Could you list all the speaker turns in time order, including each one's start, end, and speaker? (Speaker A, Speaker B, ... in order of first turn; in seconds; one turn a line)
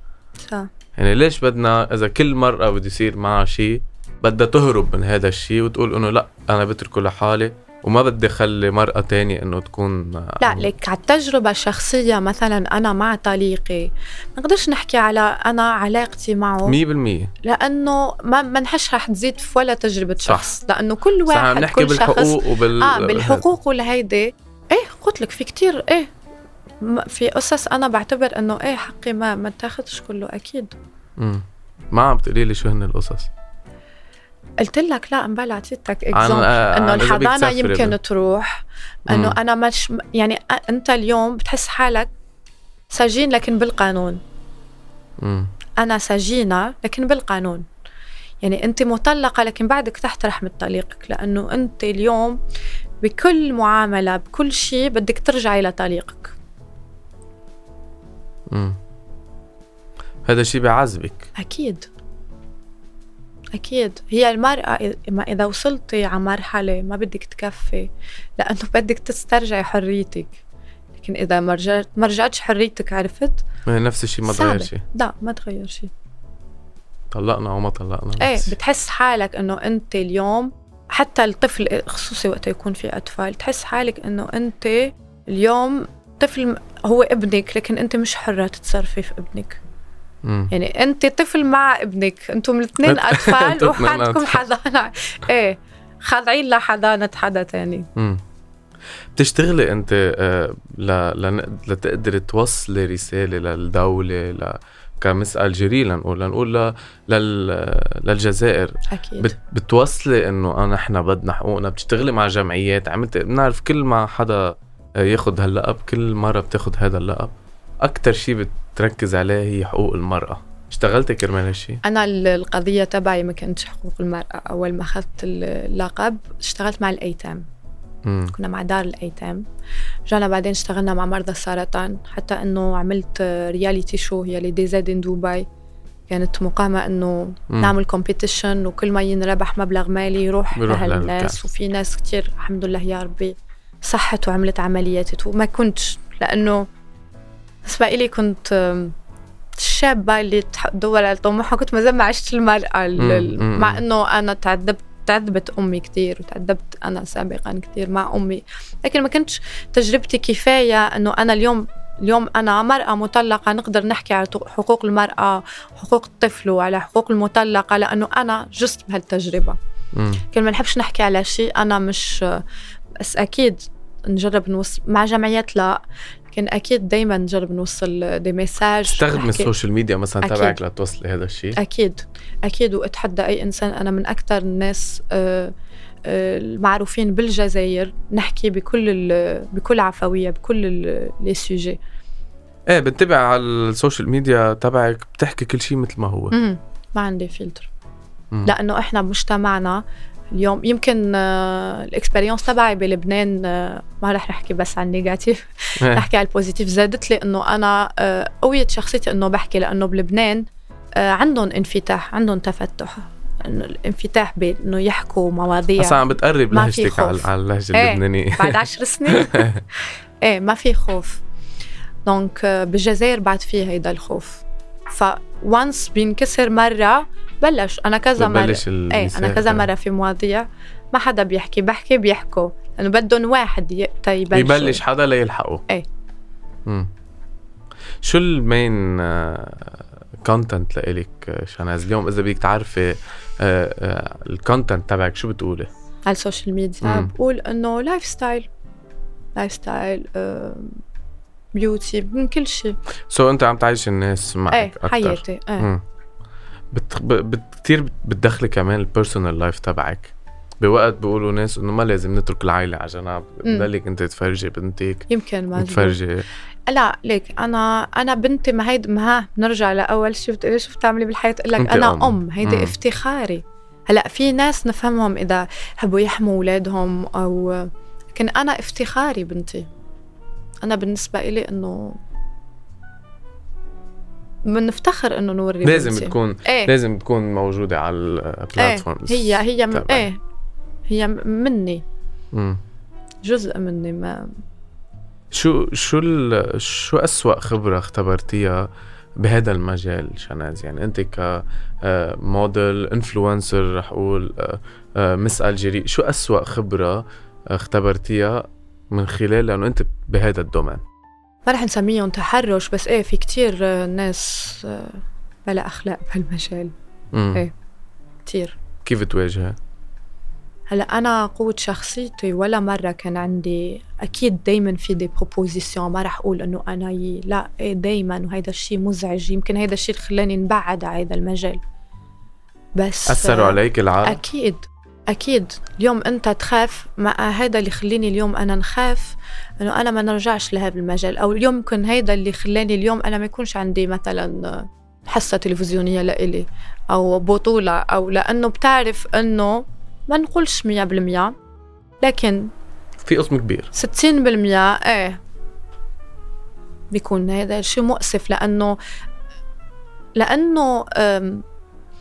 Speaker A: 0.4-0.7
Speaker B: 1.0-10.7
Speaker A: 10.4-16.8
Speaker B: 16.7-17.3
Speaker A: 17.4-26.1
Speaker B: 21.3-23.4
Speaker A: 26.8-30.8
Speaker B: 31.2-33.3
Speaker A: 34.6-42.1
Speaker B: 36.1-38.0
Speaker B: 39.1-39.4
Speaker A: 42.9-44.2
Speaker B: 45.2-45.5
Speaker A: 45.8-47.7
Speaker A: 48.4-52.4
Speaker A: 53.0-56.3
Speaker B: 58.5-58.8
Speaker B: 60.2-61.3
Speaker A: 61.4-61.9
Speaker A: 63.5-70.4
Speaker A: 71.0-73.5
Speaker B: 73.7-74.8
Speaker A: 74.2-75.9
Speaker B: 77.1-78.5
Speaker A: 78.2-89.6
Speaker B: 90.2-90.5
Speaker A: 90.5-97.9
Speaker B: 92.8-94.4
Speaker B: 98.0-98.2
Speaker B: 99.2-121.8
Speaker A: 108.9-109.4
Speaker A: 121.8-127.5
Speaker B: 128.1-128.3
Speaker A: 128.3-129.4
Speaker A: 130.1-135.5
Speaker A: 136.1-146.7
Speaker B: 140.5-141.4
Speaker A: 147.6-148.9
Speaker A: 149.6-169.6
Speaker B: 153.0-153.8
Speaker B: 169.9-170.2
Speaker A: 170.3-172.4
Speaker A: 173.0-175.8
Speaker A: 176.3-179.5
Speaker B: 178.9-181.6
Speaker A: 180.2-180.6
Speaker A: 181.6-185.5
Speaker A: 186.1-191.8
Speaker B: 192.7-196.4
Speaker A: 196.3-197.7
Speaker A: 198.4-219.5
Speaker B: 205.8-206.1
Speaker B: 215.8-219.6
Speaker A: 220.2-221.2
Speaker A: 222.1-234.8
Speaker B: 228.2-229.7
Speaker B: 234.3-235.6
Speaker B: 238.0-245.7
Speaker A: 246.1-248.5
Speaker B: 246.8-247.1
Speaker A: 249.4-250.8
Speaker A: 251.6-252.8
Speaker B: 253.1-255.8
Speaker A: 254.5-255.7
Speaker B: 256.7-266.3
Speaker A: 265.1-266.0
Speaker A: 266.7-279.7
Speaker B: 271.6-272.8
Speaker A: 280.6-282.0
Speaker A: 284.4-286.7
Speaker B: 285.6-290.1
Speaker A: 288.6-290.2
Speaker A: 290.9-291.8
Speaker B: 292.3-292.6
Speaker A: 293.2-294.4
Speaker B: 295.3-298.7
Speaker B: 299.2-310.8
Speaker A: 311.5-316.7
Speaker B: 317.1-317.4
Speaker A: 318.2-318.6
Speaker B: 318.9-319.6
Speaker A: 320.7-331.6
Speaker A: 332.8-351.4
Speaker B: 333.1-334.2
Speaker A: 352.0-352.5
Speaker B: 353.0-353.7
Speaker A: 353.7-355.2
Speaker A: 356.9-358.8
Speaker A: 360.2-361.4